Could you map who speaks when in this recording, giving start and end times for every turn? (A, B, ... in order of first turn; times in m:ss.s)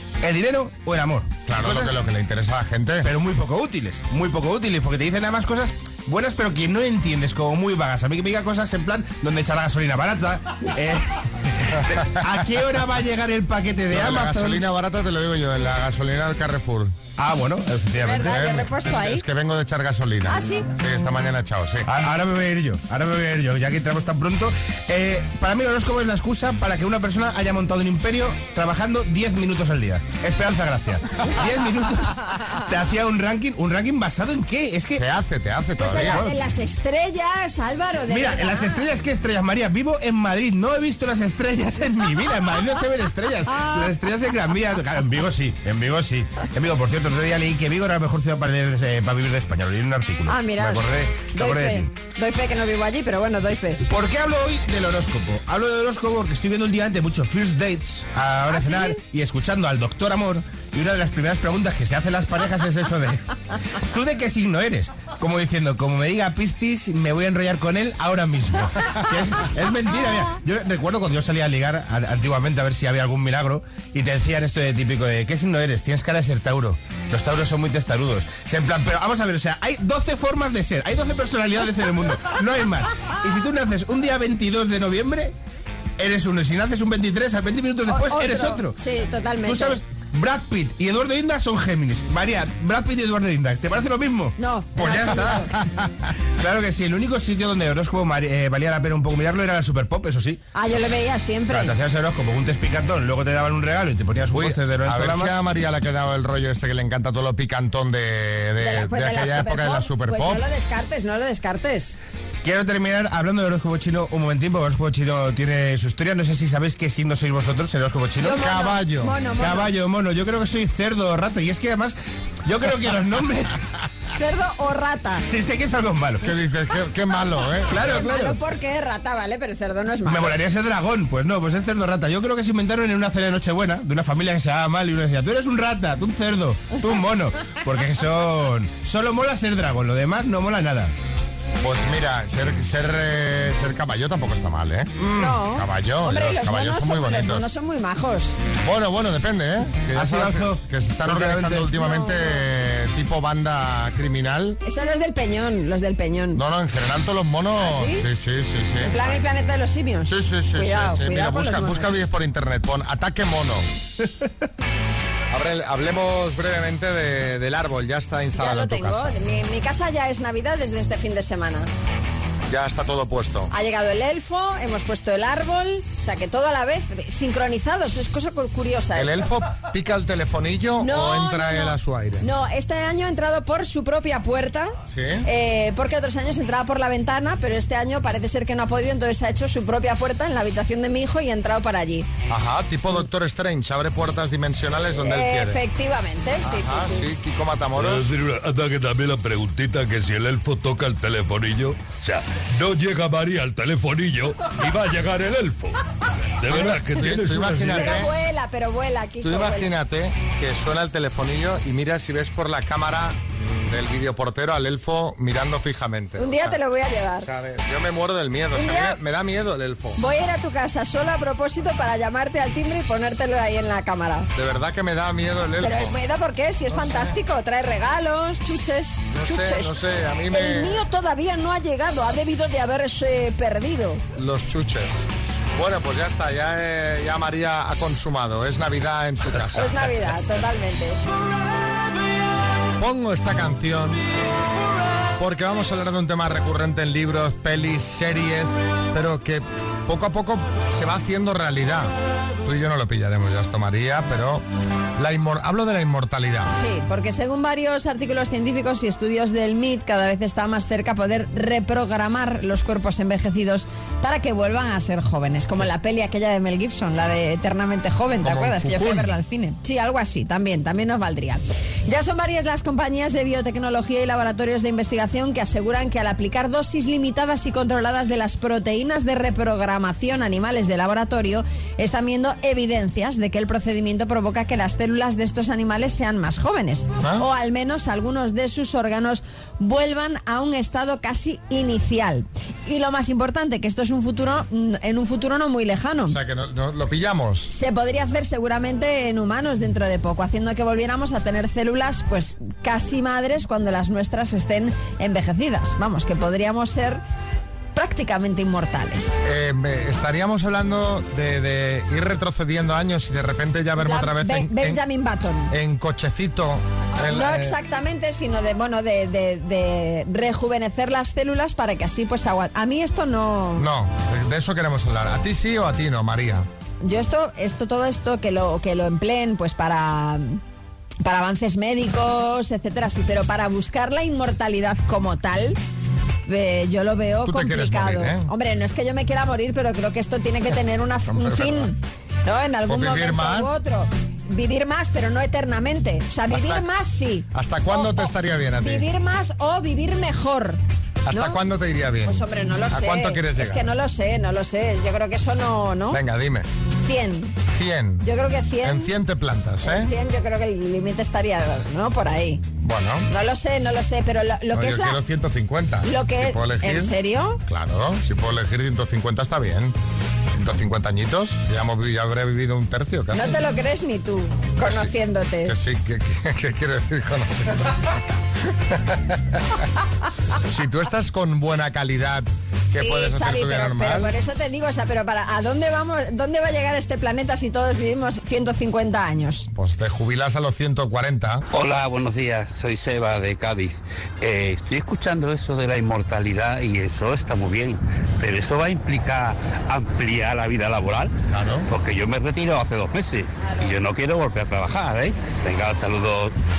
0:00.2-0:01.9 A
0:01.5-0:03.1 B
0:03.0-0:14.6 A
0:11.9-0:12.3 B
0:13.9-0:17.0 B
0:17.2-0:18.5 A
0:18.0-0:19.2 C
0:18.1-0:21.9 B
0:20.3-0:20.7 C
0:21.9-0:35.0 A
0:35.0-0:36.2 B
0:35.8-0:38.8 C
0:35.9-0:36.4 A
0:38.1-0:51.9 A
0:43.5-0:43.9 C
0:50.3-0:50.8 C
0:51.3-0:53.8 C
0:53.8-1:03.3 A
0:58.5-0:58.9 C
1:03.9-1:25.3 A
1:26.0-1:28.8 A
1:27.9-1:29.8 C
1:29.4-1:35.6 A
1:34.4-1:35.5 C
1:36.4-1:40.4 A
1:40.6-1:41.8 C
1:41.5-1:45.4 A
1:44.3-1:50.4 B
1:48.6-1:52.0 C
1:52.4-1:58.4 A
1:58.2-1:59.7 C
1:58.3-1:59.2 B
1:59.4-2:03.6 A
2:04.2-2:05.3 C
2:05.2-2:06.3 A
2:06.2-2:08.0 B
2:07.7-2:08.4 A
2:07.7-2:10.4 C
2:10.0-2:20.9 A
2:21.6-2:27.5 B
2:25.0-2:28.4 C
2:28.6-2:34.6 B
2:29.9-2:31.7 A
2:31.8-2:32.3 C
2:34.6-2:36.4 C
2:36.3-2:39.2 B
2:37.6-2:38.0 C
2:38.8-2:41.9 C
2:40.1-2:43.6 B
2:45.3-2:49.1 B
2:48.4-2:51.7 C
2:52.5-2:53.5 B
2:53.5-2:59.3 C
2:59.0-3:02.3 B
3:00.8-3:04.7 C
3:04.9-3:05.3 B
3:05.2-3:12.1 C
3:12.3-3:15.6 B
3:15.0-3:17.1 C
3:16.4-3:18.1 B
3:17.8-3:25.8 D
3:26.4-3:28.0 D
3:26.5-3:28.1 B
3:27.8-3:29.7 C
3:29.2-3:36.6 B
3:36.2-3:37.3 C
3:37.2-3:40.0 B
3:38.5-3:39.0 C
3:40.0-3:44.3 C
3:44.4-3:46.0 B
3:45.6-3:49.7 C
3:46.7-3:47.2 B
3:49.1-3:50.8 B
3:50.3-3:54.0 C
3:54.2-3:59.9 B
3:59.5-4:01.0 C
4:02.8-4:04.0 B
4:05.2-4:11.9 B
4:12.4-4:14.4 B
4:15.0-4:16.5 B
4:16.6-4:56.2 C
4:28.2-4:29.1 B
4:47.0-4:47.3 B
4:56.1-4:57.5 B
4:57.5-5:07.0 C
5:07.8-5:09.2 C
5:09.2-5:14.8 B
5:13.8-5:15.5 C
5:15.5-5:17.6 B
5:17.1-5:23.7 C
5:23.6-5:26.5 B
5:26.8-5:30.4 C
5:31.0-5:35.6 C
5:36.3-5:50.6 C
5:37.2-5:38.3 B
5:41.1-5:41.7 B
5:42.7-5:43.5 B
5:46.3-5:46.6 B
5:47.3-5:48.9 B
5:51.1-5:53.7 B
5:52.0-5:56.0 C
5:55.9-5:56.5 B
5:56.8-5:57.3 C
5:57.5-5:58.1 B
5:58.0-5:58.9 C
5:58.6-5:59.9 B
5:59.6-6:02.4 C
6:02.6-6:03.1 B
6:03.1-6:05.0 C
6:04.5-6:07.0 B
6:05.8-6:07.4 C
6:07.5-6:09.8 B
6:10.4-6:13.4 B
6:13.1-6:15.6 C
6:14.6-6:14.9 B
6:15.4-6:17.9 B
6:18.7-6:19.4 B
6:20.5-6:24.1 B
6:22.7-6:29.5 C
6:29.5-6:31.4 B
6:31.5-6:41.1 E
6:41.3-6:41.7 B
6:41.7-6:46.3 E